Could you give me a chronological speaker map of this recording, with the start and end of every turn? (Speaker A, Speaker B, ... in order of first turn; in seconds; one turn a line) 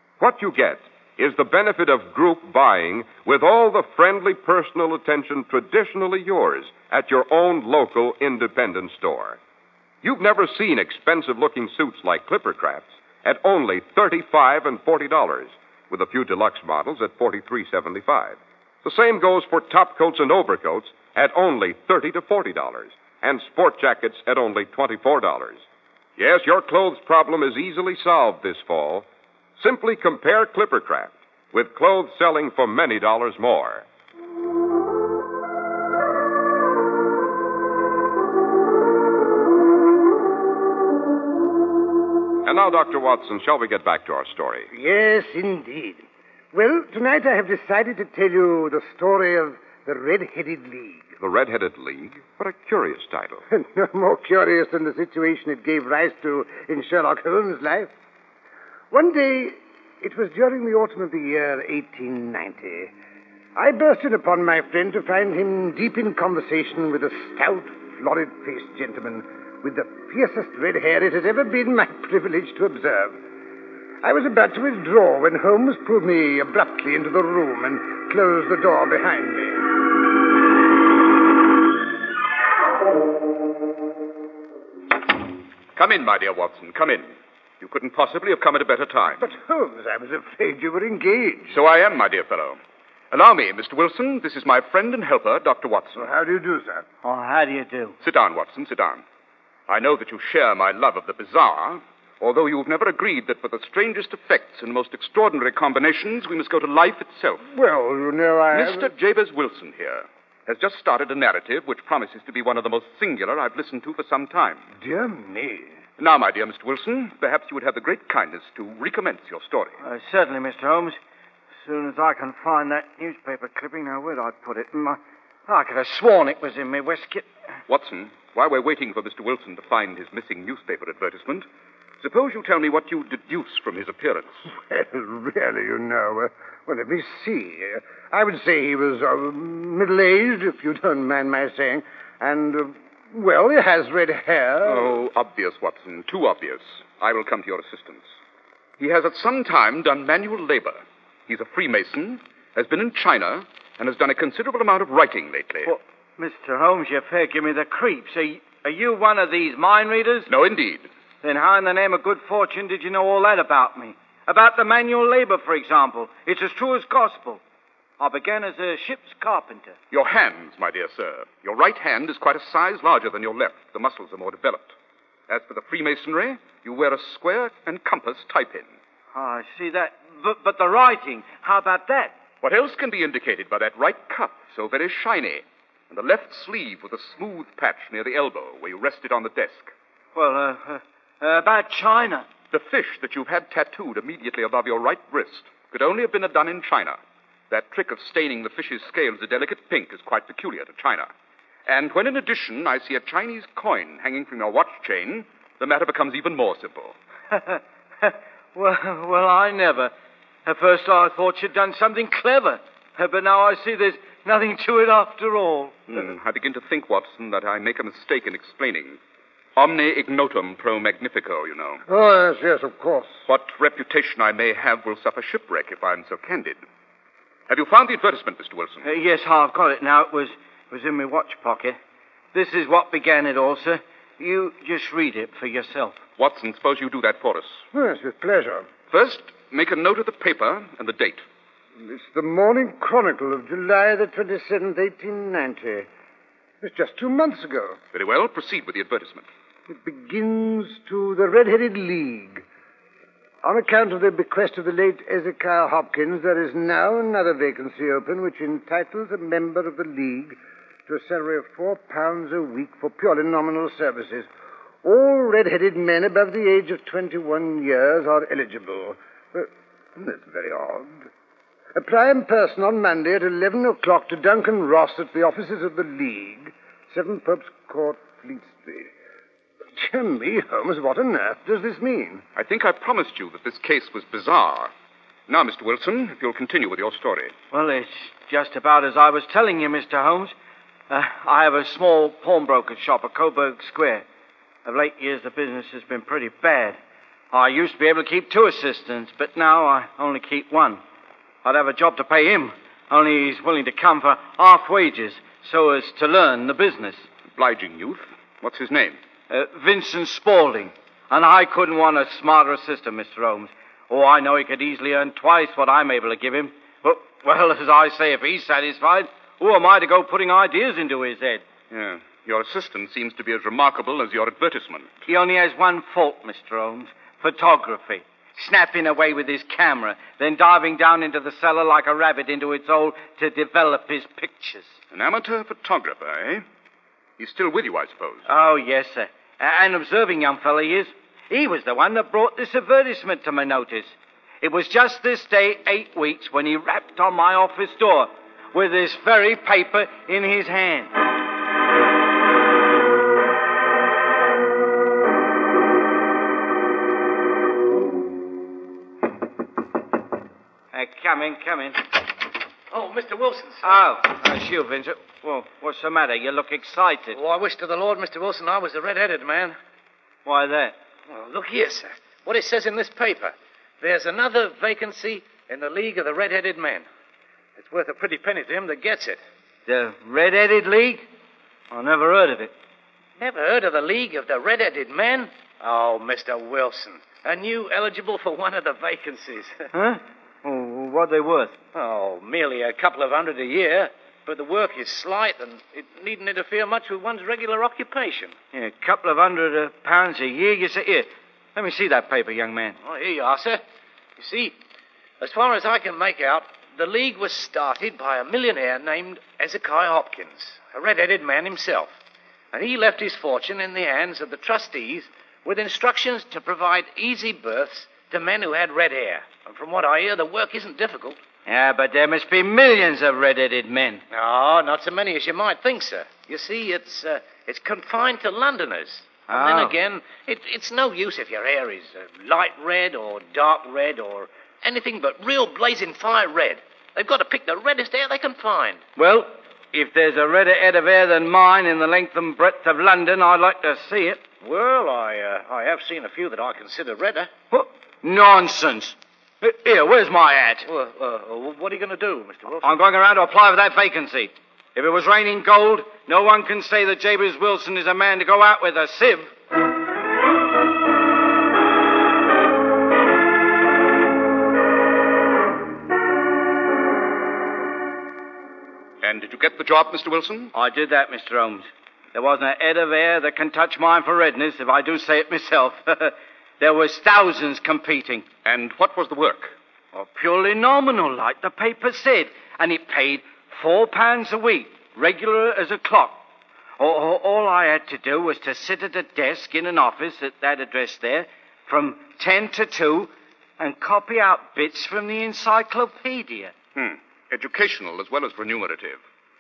Speaker A: 0.2-9.4
Speaker A: 10.0-25.6
Speaker A: 26.2-29.1
Speaker A: 29.6-33.9
Speaker A: 42.5-44.7
Speaker B: 44.7-51.1
Speaker A: 51.2-53.5
Speaker B: 53.5-57.9
Speaker B: 58.9-62.9
Speaker B: 63.6-73.2
Speaker B: 74.0-79.7
Speaker C: 85.8-89.3
Speaker B: 89.2-91.6
Speaker C: 91.5-92.6
Speaker C: 93.1-96.1
Speaker B: 96.0-96.8
Speaker D: 97.0-98.0
Speaker C: 98.0-99.0
Speaker C: 99.7-107.4
Speaker B: 107.5-108.9
Speaker C: 108.5-114.7
Speaker B: 114.8-115.8
Speaker C: 116.0-119.8
Speaker D: 119.8-121.0
Speaker D: 121.7-127.3
Speaker C: 127.7-131.5
Speaker C: 132.0-134.3
Speaker B: 134.6-144.9
Speaker C: 144.6-148.0
Speaker C: 148.8-155.7
Speaker D: 155.7-160.3
Speaker C: 160.3-160.9
Speaker D: 161.2-167.4
Speaker D: 168.0-169.8
Speaker C: 169.9-174.7
Speaker C: 175.3-178.8
Speaker D: 179.1-182.2
Speaker C: 182.4-189.7
Speaker D: 190.2-192.3
Speaker C: 192.5-197.0
Speaker C: 197.5-201.1
Speaker C: 201.7-207.0
Speaker D: 207.3-209.9
Speaker D: 210.5-215.8
Speaker C: 215.9-219.0
Speaker C: 219.6-221.8
Speaker B: 221.9-223.2
Speaker C: 223.3-226.6
Speaker C: 227.5-228.9
Speaker D: 228.8-231.8
Speaker D: 232.3-236.0
Speaker C: 236.2-237.6
Speaker B: 237.7-238.7
Speaker C: 238.9-241.2
Speaker B: 241.8-245.9
Speaker B: 246.6-247.8
Speaker C: 247.9-249.3
Speaker B: 249.7-252.4
Speaker B: 253.4-264.3
Speaker B: 264.8-271.1
Speaker B: 271.8-278.9
Speaker B: 279.8-282.2
Speaker C: 282.4-284.7
Speaker C: 285.3-287.3
Speaker D: 287.5-290.3
Speaker D: 290.9-294.1
Speaker D: 294.7-296.8
Speaker D: 297.3-300.8
Speaker D: 301.4-307.1
Speaker C: 307.4-309.0
Speaker D: 309.3-321.4
Speaker C: 321.7-324.9
Speaker D: 325.1-334.7
Speaker C: 334.9-336.4
Speaker C: 337.2-338.3
Speaker D: 338.3-350.9
Speaker D: 360.7-361.8
Speaker E: 362.7-363.8
Speaker D: 363.6-367.2
Speaker E: 367.1-369.6
Speaker D: 370.3-370.8
Speaker E: 371.1-376.9
Speaker E: 377.6-379.2
Speaker D: 379.7-381.1
Speaker D: 381.7-382.5
Speaker E: 383.2-389.7
Speaker D: 389.7-391.6
Speaker E: 391.7-398.4
Speaker D: 398.5-402.8
Speaker E: 402.8-403.6
Speaker E: 404.2-404.6
Speaker E: 405.2-411.9
Speaker E: 412.5-421.2
Speaker D: 421.5-424.0
Speaker E: 424.1-438.8
Speaker D: 429.3-429.8
Speaker D: 439.0-444.2
Speaker E: 444.4-447.3
Speaker D: 447.5-450.7
Speaker E: 450.7-452.8
Speaker D: 452.6-459.3
Speaker C: 469.0-470.5
Speaker D: 470.5-478.2
Speaker C: 478.4-479.6
Speaker D: 479.9-486.2
Speaker D: 486.8-496.5
Speaker C: 496.8-499.0